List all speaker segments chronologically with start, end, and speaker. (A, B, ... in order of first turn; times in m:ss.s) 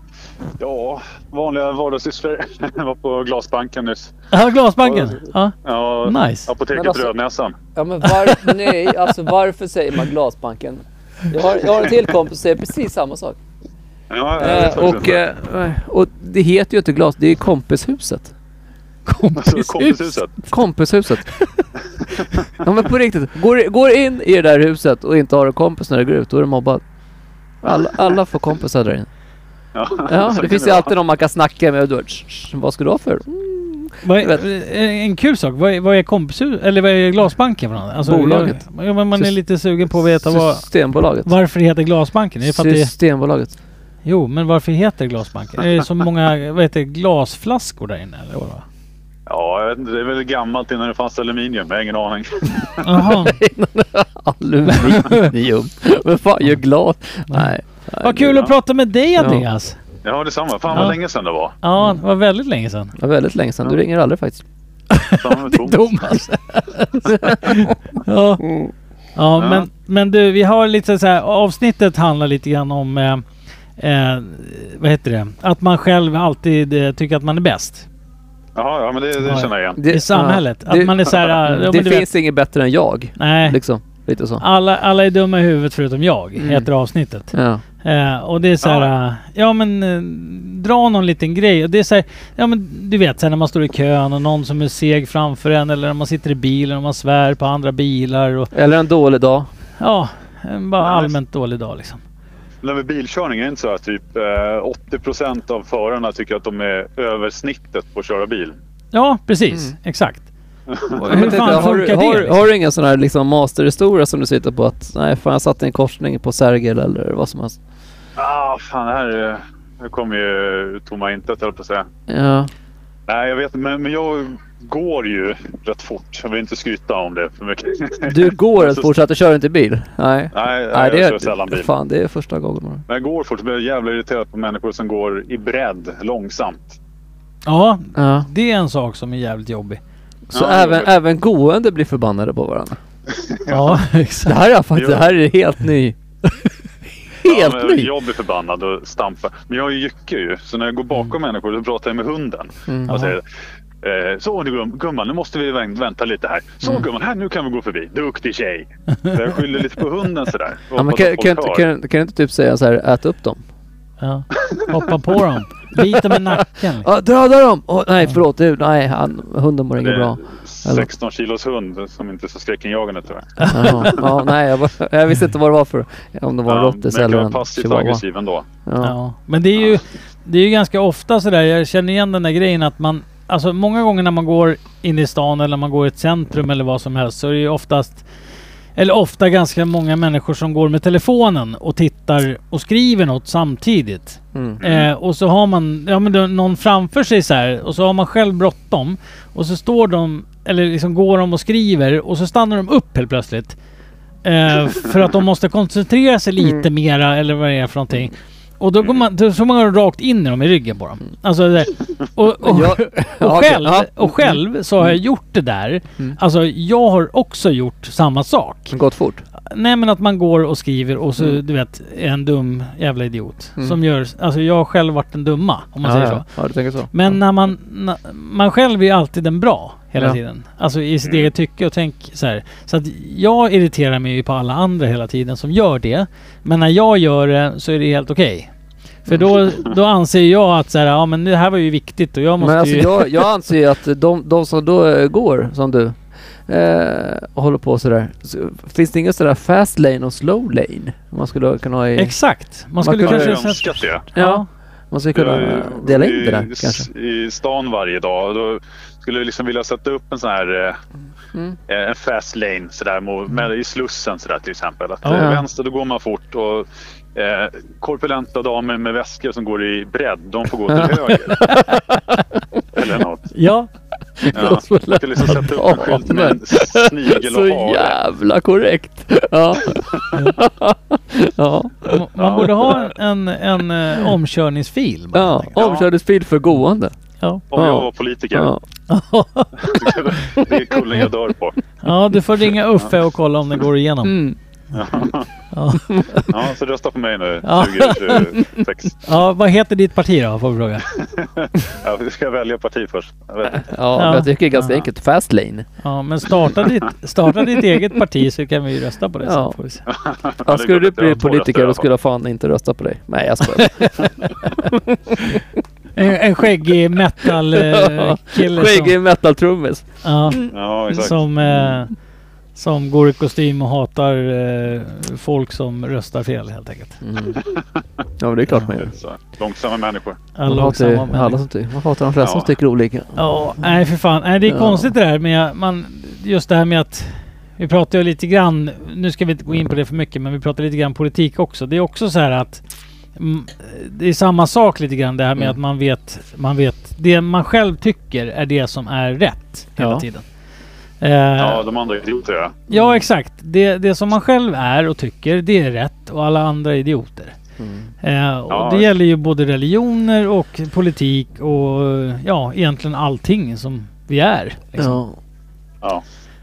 0:00.6-0:04.1 A
0:04.3-0:06.5 B
0:04.8-0:05.3 C
0:05.6-0:07.6 A
0:06.7-0:07.1 C
0:07.7-0:13.4 C
0:14.1-0:15.2 A
0:14.4-0:18.3 C
0:19.1-0:20.5 B
0:19.4-0:20.3 A
0:20.5-0:21.3 C
0:21.3-0:21.6 B
0:22.5-0:26.8 C
0:27.6-0:29.1 C
0:29.7-0:30.9 A
0:30.0-0:34.4 C
0:34.0-0:40.6 B
0:38.0-0:38.6 C
0:40.2-0:41.3 C
0:41.2-0:42.9 B
0:42.4-0:43.5 C
0:44.0-0:48.6 B
0:49.3-0:52.8 A
0:52.8-0:53.4 B
0:53.0-0:58.5 C
0:54.7-0:55.3 B
0:57.3-0:59.8 B
0:59.2-0:59.4 C
1:00.0-1:01.5 A
1:01.6-1:02.9 B
1:03.0-1:04.4 C
1:04.9-1:08.5 B
1:05.2-1:06.2 A
1:07.0-1:07.6 C
1:09.2-1:13.2 B
1:09.4-1:09.7 A
1:13.8-1:17.8 B
1:18.5-1:19.8 A
1:19.2-1:22.1 B
1:19.7-1:24.4 C
1:23.2-1:23.6 B
1:24.4-1:38.5 B
1:26.4-1:26.7 C
1:27.3-1:27.6 C
1:28.6-1:28.9 A
1:38.5-1:39.5 C
1:39.8-1:42.0 B
1:40.8-1:41.1 A
1:42.6-1:48.6 A
1:48.9-1:50.2 B
1:50.7-1:51.6 A
1:50.9-1:52.5 B
1:51.0-1:57.6 C
1:58.2-2:01.8 A
2:02.1-2:02.5 C
2:03.1-2:08.9 A
2:08.0-2:12.8 C
2:10.3-2:11.7 A
2:12.9-2:16.8 A
2:17.4-2:19.8 B
2:18.0-2:18.3 C
2:20.3-2:22.8 C
2:20.3-2:20.9 A
2:23.2-2:23.8 A
2:23.5-2:24.4 B
2:24.2-2:26.0 C
2:24.7-2:25.1 A
2:27.2-2:27.9 C
2:27.2-2:33.2 A
2:32.7-2:33.1 C
2:33.8-2:41.6 A
2:40.7-2:43.4 C
2:44.0-2:46.9 B
2:45.8-2:50.9 C
2:49.8-2:54.1 A
2:53.4-2:54.0 B
2:53.5-2:58.0 C
2:56.5-2:58.4 A
2:58.6-2:58.9 C
2:58.8-3:08.0 B
3:08.8-3:23.6 B
3:14.3-3:14.6 C
3:14.6-3:14.9 A
3:24.2-3:38.7 B
3:32.4-3:35.0 C
3:38.7-3:39.2 C
3:39.5-3:46.3 B
3:45.8-3:47.2 C
3:46.9-3:58.5 B
3:59.1-3:59.4 C
3:59.1-4:03.2 B
4:02.4-4:12.2 C
4:12.0-4:14.5 B
4:12.8-4:16.9 C
4:13.0-4:14.0 A
4:15.1-4:20.8 A
4:21.7-4:31.5 A
4:25.0-4:25.3 B
4:25.1-4:25.4 C
4:30.7-4:32.8 C
4:32.7-4:33.3 A
4:33.3-4:33.7 B
4:34.2-4:42.7 C
4:34.3-4:35.4 B
4:34.3-4:38.0 A
4:41.9-4:45.6 B
4:42.2-4:42.9 A
4:45.1-4:46.9 C
4:45.6-4:45.9 A
4:47.5-4:48.5 A
4:47.5-4:48.6 C
4:48.9-4:50.0 B
4:49.6-4:51.6 A
4:51.8-4:54.3 B
4:54.0-4:54.4 C
4:54.7-4:55.3 A
4:55.5-4:56.2 B
4:55.9-4:56.3 C
4:56.2-4:59.0 A
4:57.4-4:58.2 B
4:58.1-4:58.5 C
4:59.0-5:00.8 B
5:00.9-5:03.7 A
5:03.6-5:05.6 C
5:03.9-5:04.8 B
5:05.8-5:09.8 B
5:09.2-5:09.6 C
5:09.9-5:11.9 A
5:10.4-5:15.4 C
5:13.6-5:14.0 B
5:16.0-5:19.0 B
5:17.2-5:20.5 C
5:20.0-5:21.9 B
5:20.4-5:21.2 A
5:22.5-5:27.0 B
5:27.0-5:27.4 C
5:28.2-5:28.9 C
5:28.8-5:30.2 A
5:30.4-5:31.4 B
5:30.4-5:33.2 C
5:32.2-5:32.5 A
5:33.2-5:42.6 B
5:34.5-5:34.9 C
5:43.2-5:50.2 B
5:49.8-5:50.0 C
5:51.0-5:51.7 B
5:51.4-5:52.6 A
5:52.7-5:57.3 B
5:52.7-5:53.0 C
5:57.6-5:57.9 C
5:58.0-6:05.0 B
5:58.5-5:58.9 A
6:04.8-6:05.2 C